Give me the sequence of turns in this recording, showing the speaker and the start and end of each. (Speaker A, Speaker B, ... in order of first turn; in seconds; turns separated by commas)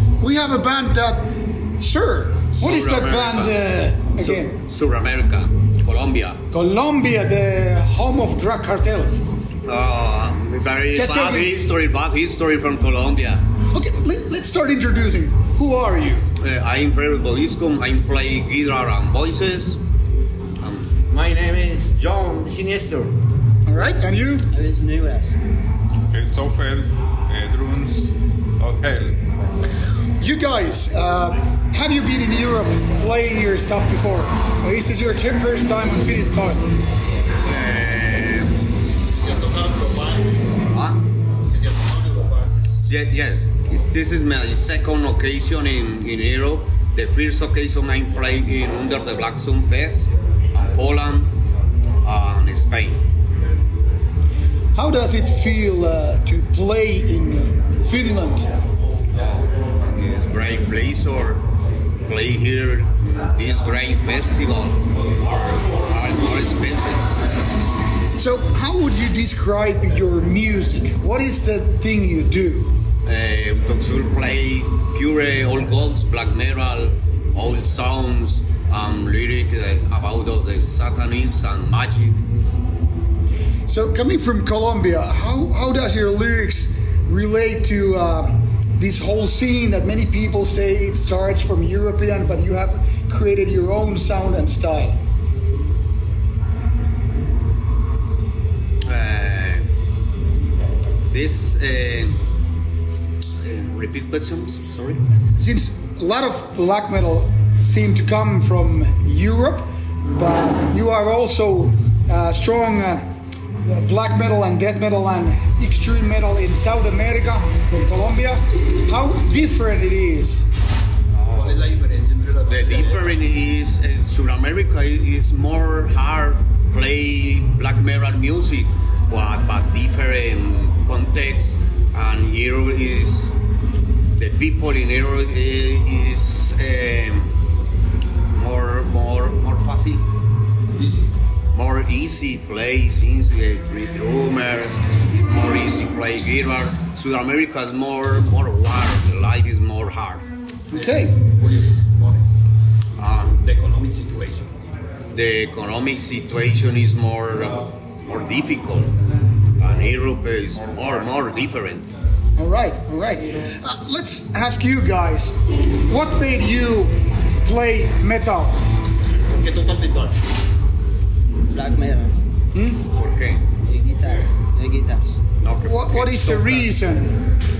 Speaker A: 0.2-4.6, Speaker B: 2.5-6.4, Speaker A: 6.5-9.2, Speaker B: 9.7-13.4, Speaker A: 10.9-11.5, Speaker A: 13.7-16.2, Speaker B: 16.4-19.8, Speaker B: 20.6-20.9, Speaker C: 21.1-23.1, Speaker A: 23.6-24.5, Speaker D: 24.5-25.4, Speaker E: 26.1-29.2, Speaker A: 30.2-36.7, Speaker B: 37.4-38.6, Speaker F: 39.1-40.5, Speaker B: 40.7-41.0, Speaker F: 41.5-42.7, Speaker B: 42.8-50.1, Speaker B: 50.7-51.3, Speaker B: 52.0-53.0, Speaker A: 54.7-58.5, Speaker B: 59.1-61.4, Speaker B: 62.0-67.1, Speaker A: 68.1-72.7, Speaker B: 73.0-82.2, Speaker A: 83.7-95.0, Speaker B: 98.8-99.6, Speaker B: 101.1-102.2, Speaker B: 103.4-105.0, Speaker A: 105.3-113.0, Speaker A: 113.7-120.4, Speaker B: 121.1-121.6, Speaker F: 121.3-123.0, Speaker B: 122.5-133.3, Speaker B: 134.2-137.3, Speaker B: 138.3-140.0, Speaker F: 140.8-141.0, Speaker B: 141.5-150.2, Speaker A: 150.7-151.2, Speaker F: 150.7-152.2, Speaker B: 153.0-153.4, Speaker F: 153.3-154.5, Speaker B: 155.1-158.9, Speaker B: 159.6-161.9, Speaker A: 162.4-168.6, Speaker F: 169.3-170.1, Speaker D: 171.5-172.1, Speaker A: 172.5-172.8, Speaker B: 172.9-173.5, Speaker D: 173.6-175.2, Speaker B: 175.4-176.7, Speaker A: 175.6-177.2